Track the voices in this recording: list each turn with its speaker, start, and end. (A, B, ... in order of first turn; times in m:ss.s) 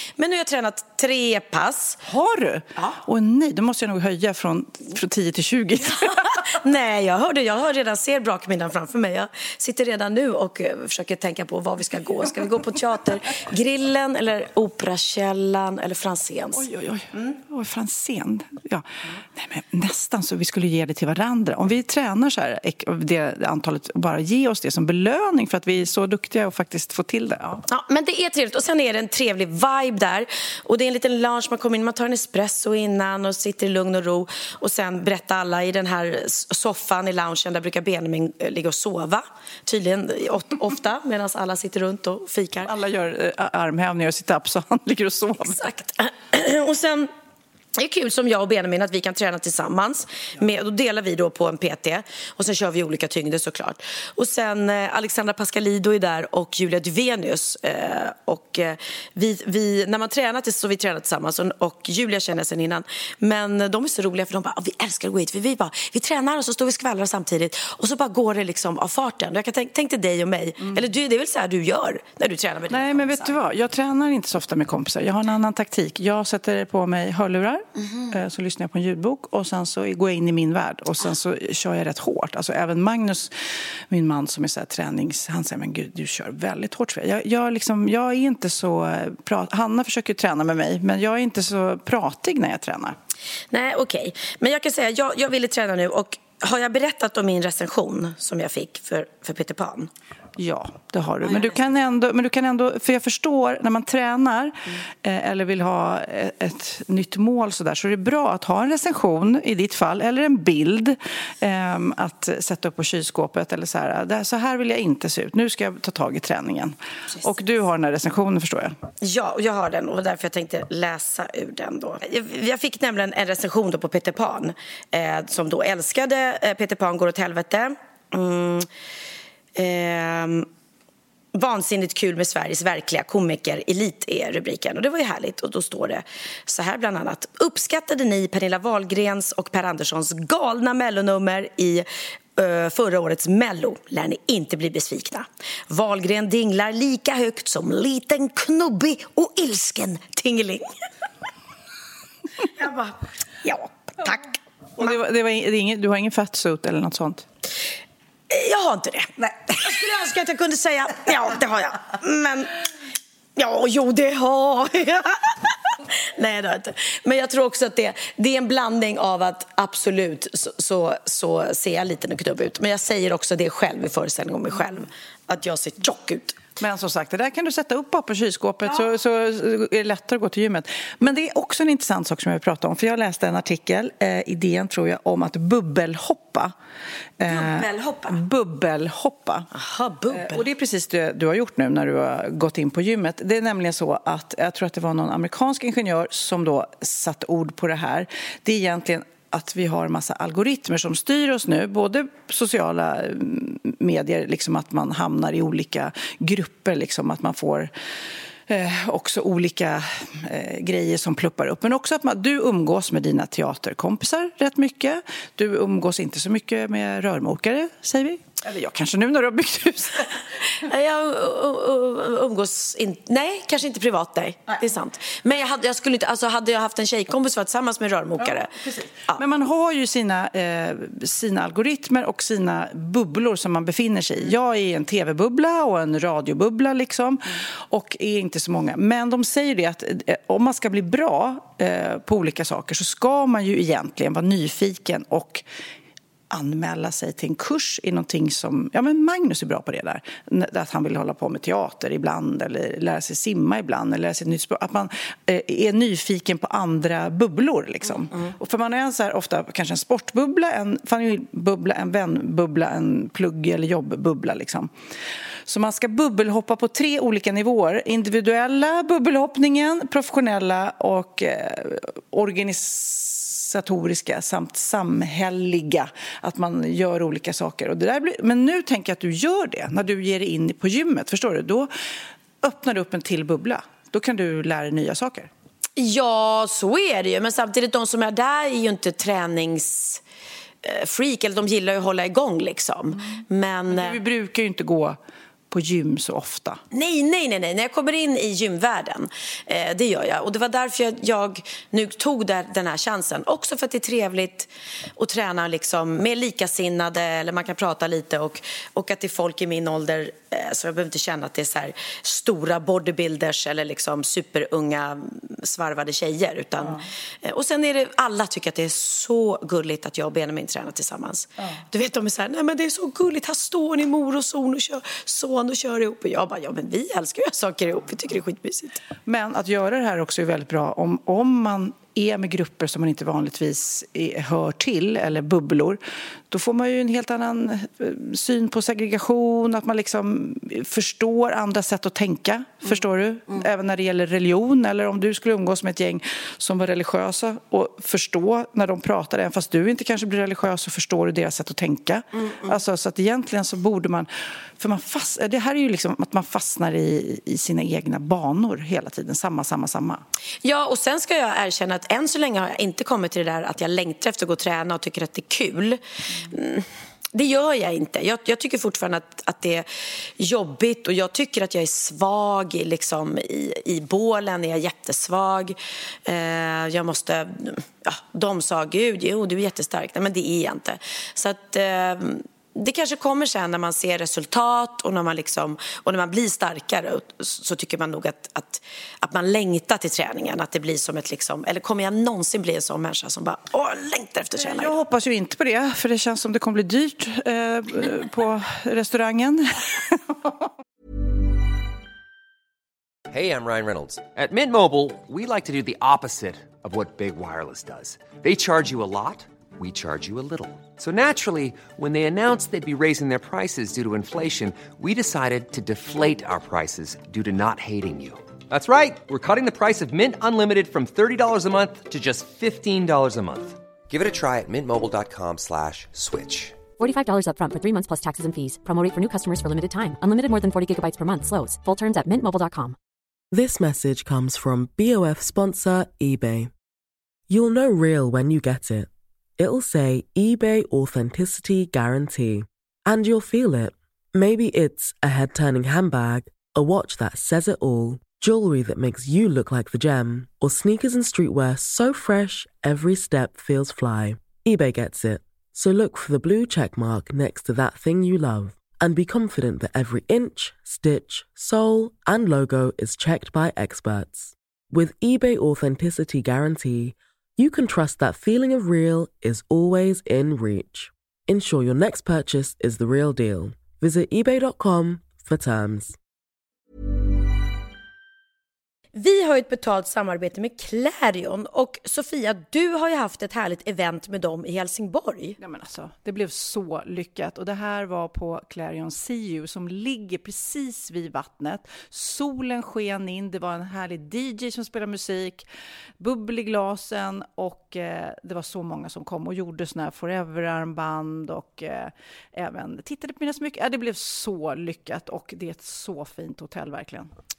0:00.2-0:02.0 A
0:02.1-0:06.5 B
0:05.9-0:16.7 A
0:16.5-0:27.6 B
0:27.7-0:42.7 A
0:42.6-0:45.6 B
0:45.4-0:47.1 A
0:47.8-1:13.4 A
1:12.7-1:23.3 B
1:23.9-1:33.0 B
1:33.5-1:39.9 A
1:40.4-1:58.8 B
1:41.2-1:41.6 A
1:59.0-2:08.7 A
2:09.6-2:10.5 A
2:11.3-2:30.7 A
2:32.6-2:35.0 A
2:34.8-2:37.3 B
2:38.3-2:42.6 A
2:43.4-2:45.6 A
2:46.2-2:56.4 A
2:56.6-3:06.5 B
3:07.2-3:09.5 B
3:07.3-3:08.2 A
3:09.6-3:10.4 A
3:10.1-3:27.7 B
3:28.5-3:40.2 B
3:40.6-3:48.5 A
3:48.2-4:05.4 B
4:06.3-4:24.7 B
4:25.5-4:41.7 B
4:42.4-4:45.3 B
4:45.8-4:50.0 A
4:50.6-4:54.0 A
4:53.7-4:55.0 B
4:55.5-4:56.6 B
4:56.7-5:28.8 A
5:29.1-6:00.0 B
5:52.2-5:52.5 A
6:00.4-6:09.7 A
6:10.2-6:34.7 A
6:34.4-6:40.4 B
6:43.1-7:06.6 C
7:06.8-7:12.8 D
7:13.3-7:16.5 E
7:17.3-7:56.0 E
7:58.9-8:05.4 A
8:05.4-8:15.5 B
8:16.0-8:27.1 B